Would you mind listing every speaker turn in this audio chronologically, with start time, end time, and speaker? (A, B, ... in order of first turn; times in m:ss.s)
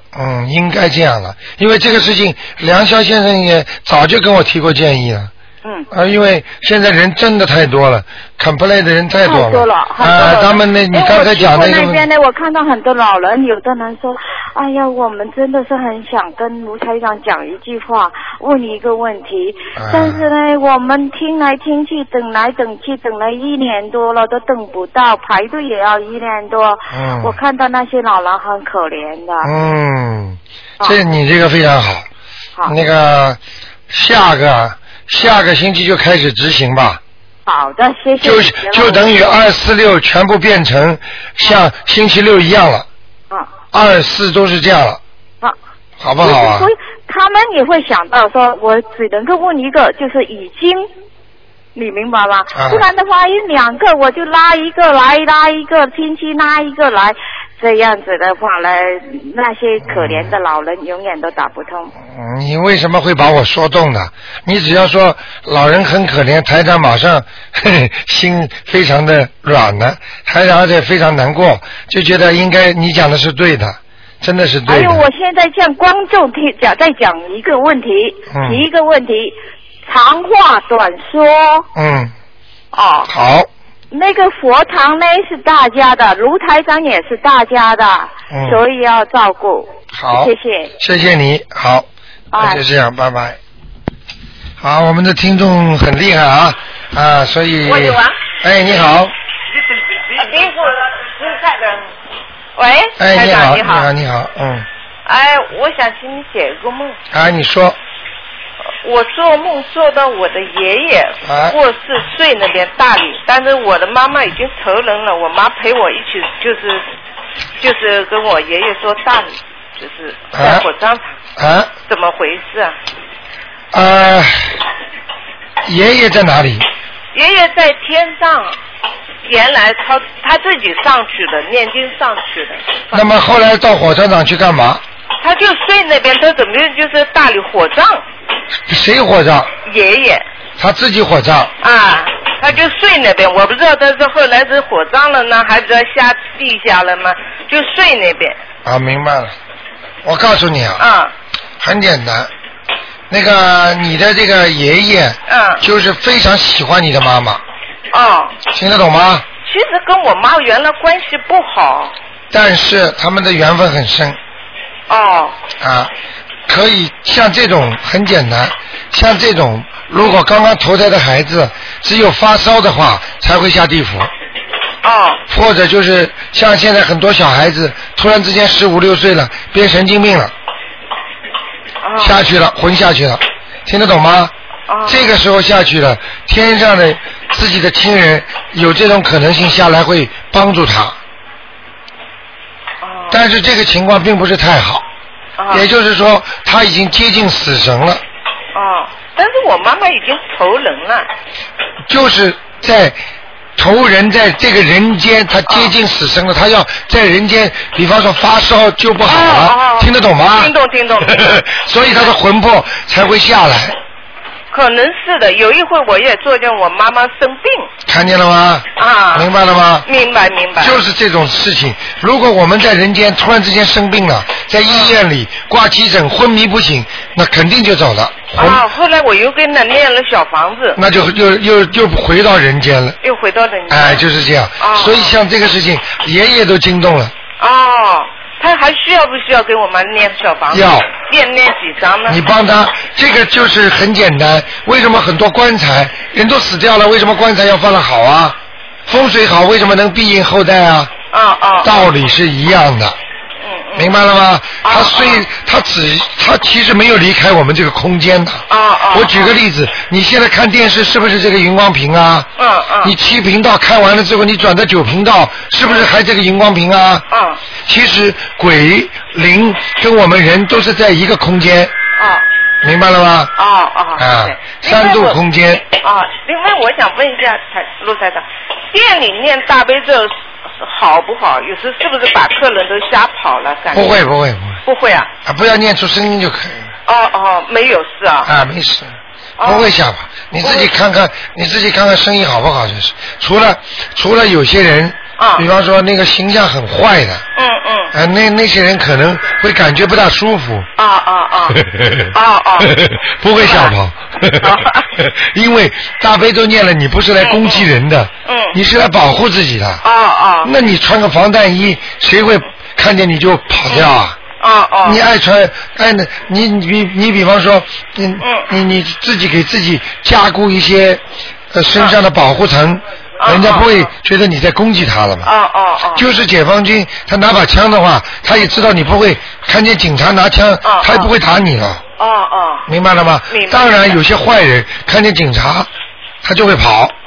0:00.1-0:05.3 A
0:05.9-0:12.0 A
0:09.2-0:29.5 B
0:19.8-0:20.2 A
0:26.9-0:27.4 A
0:29.4-0:32.0 A
0:32.6-0:37.0 A
0:37.4-0:39.2 B
0:38.2-0:42.9 A
0:43.7-0:45.0 A
0:46.0-0:46.7 A
0:46.2-0:50.8 B
0:51.7-1:01.9 B
0:52.5-0:52.8 A
0:59.8-1:00.3 A
1:02.0-1:15.0 A
1:14.6-1:21.7 B
1:18.3-1:18.6 A
1:21.7-1:22.1 A
1:22.7-1:23.1 B
1:23.1-1:23.5 A
1:23.9-1:30.7 B
1:28.3-1:28.6 A
1:29.9-1:31.8 A
1:32.3-1:32.6 B
1:32.4-1:33.4 A
1:34.6-1:39.1 A
1:37.6-1:38.2 C
1:40.1-1:41.9 C
1:42.6-1:43.9 C
1:43.0-1:44.7 A
1:45.0-1:47.0 C
1:47.1-1:47.8 A
1:48.8-1:56.8 C
1:51.2-1:51.6 A
1:57.6-2:01.1 C
2:00.3-2:00.6 A
2:01.4-2:01.7 A
2:01.9-2:02.7 C
2:03.7-2:04.6 A
2:05.6-2:06.6 A
2:07.1-2:08.6 C
2:09.2-2:13.0 C
2:12.9-2:14.8 A
2:15.2-2:18.0 C
2:18.7-2:19.5 A
2:19.6-2:20.2 C
2:20.6-2:21.5 A
2:21.6-2:28.4 C
2:28.6-2:29.3 A
2:30.0-2:30.8 A
2:30.8-2:31.1 C
2:31.6-2:32.3 A
2:33.1-2:37.4 A
2:35.3-2:35.6 C
2:37.9-2:38.4 C
2:38.5-2:39.2 A
2:39.4-2:41.9 C
2:42.3-2:44.2 A
2:44.9-2:45.4 C
2:45.6-2:45.9 A
2:46.5-2:54.1 A
2:54.8-2:55.2 C
2:55.3-3:00.3 A
3:01.8-3:02.2 C
3:02.0-3:04.3 A
3:04.7-3:05.1 C
3:04.8-3:11.0 A
3:12.8-3:13.2 C
3:13.1-3:14.8 A
3:15.4-3:15.6 C
3:15.5-3:18.0 A
3:18.5-3:21.1 C
3:21.8-3:23.0 A
3:23.6-3:33.8 A
3:25.5-3:25.7 C
3:29.0-3:32.1 C
3:34.5-3:37.7 C
3:37.9-3:39.8 A
3:38.8-3:39.3 C
3:39.8-3:40.8 C
3:40.6-3:48.6 A
3:44.7-3:45.0 C
3:48.3-3:50.8 C
3:50.7-3:53.0 A
3:53.0-3:54.0 C
3:53.7-3:57.1 A
3:54.6-3:55.1 C
3:57.4-4:02.2 C
4:00.5-4:00.9 A
4:02.1-4:10.9 A
4:11.1-4:11.9 C
4:11.6-4:13.0 A
4:13.4-4:13.9 C
4:13.7-4:22.3 A
4:14.6-4:15.3 C
4:18.5-4:19.4 C
4:22.4-4:22.9 C
4:22.8-4:27.0 A
4:27.1-4:27.4 C
4:27.6-4:31.7 A
4:32.0-4:32.2 C
4:32.6-4:33.3 A
4:33.4-4:35.2 C
4:34.0-4:35.6 A
4:35.8-4:44.0 C
4:43.7-4:44.6 A
4:44.6-4:45.1 C
4:45.2-4:46.7 A
4:46.9-4:48.3 C
4:48.2-4:57.2 A
4:49.4-4:49.7 C
4:50.4-4:50.7 C
4:55.2-4:55.4 C
4:57.4-4:57.9 C
4:57.9-5:00.7 A
5:00.8-5:02.7 C
5:01.5-5:09.8 A
5:03.4-5:03.7 C
5:04.3-5:04.9 C
5:07.2-5:07.7 C
5:08.2-5:08.6 C
5:09.8-5:10.5 C
5:10.4-5:14.2 A
5:13.7-5:15.0 C
5:14.8-5:25.3 A
5:18.2-5:18.5 C
5:23.2-5:23.9 C
5:25.2-5:26.1 C
5:25.9-5:31.8 A
5:30.6-5:31.1 C
5:32.0-5:32.6 C
5:32.7-5:35.7 A
5:33.3-5:34.0 C
5:36.2-5:36.9 A